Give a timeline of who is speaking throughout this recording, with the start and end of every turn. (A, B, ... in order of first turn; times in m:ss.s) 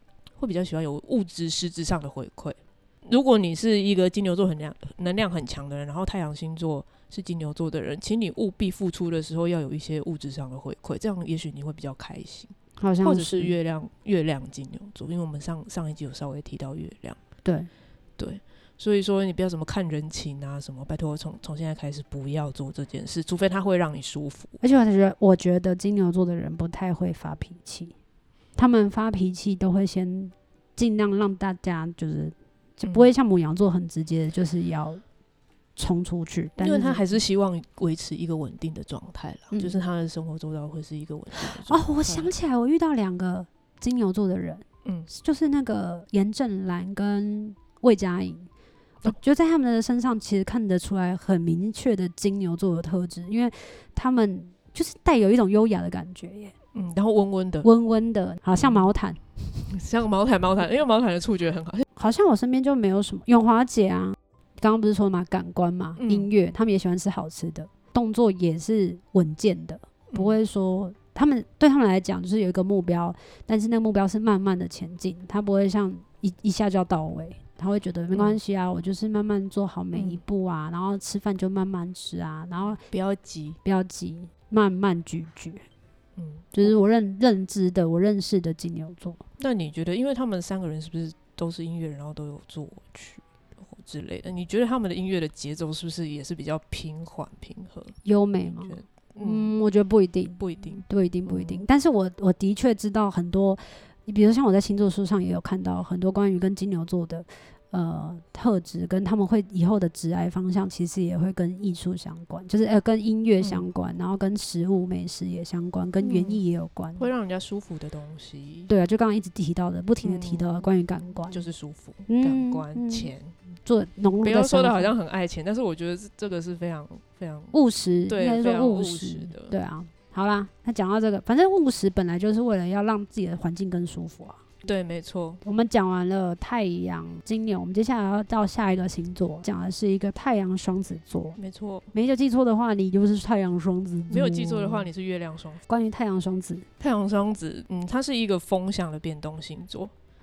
0:00.4-0:17.2 A
0:12.8-0:13.5 B
0:18.2-0:24.6 A
0:24.6-0:27.9 B
0:28.6-0:35.0 B
0:32.8-0:33.1 A
0:35.8-0:37.2 B
0:36.6-0:42.3 A
0:39.5-0:39.8 B
0:41.4-0:48.5 B
0:49.0-0:56.5 B
0:56.7-0:57.7 A
0:57.6-0:59.2 B
0:58.5-0:58.9 A
0:59.6-1:01.8 A
1:02.0-1:22.8 B
1:06.0-1:06.3 A
1:10.1-1:10.4 A
1:18.1-1:18.4 A
1:19.9-1:20.2 A
1:22.7-1:23.6 A
1:23.6-1:25.6 B
1:26.2-1:26.7 A
1:26.5-1:29.2 B
1:29.4-1:38.0 A
1:38.0-1:57.1 B
1:38.6-1:39.5 A
1:40.4-1:41.6 A
1:53.4-1:53.7 A
1:56.0-1:56.4 A
1:57.0-1:58.7 A
1:58.7-2:01.4 B
2:00.0-2:00.5 A
2:01.3-2:03.3 A
2:02.1-2:03.1 B
2:03.6-2:04.9 B
2:04.2-2:07.5 A
2:07.5-2:14.4 B
2:08.1-2:09.5 A
2:14.6-2:15.4 A
2:15.4-2:21.4 B
2:21.4-2:21.9 A
2:21.9-2:24.9 B
2:24.1-2:25.6 A
2:25.7-2:26.7 B
2:26.8-2:29.9 A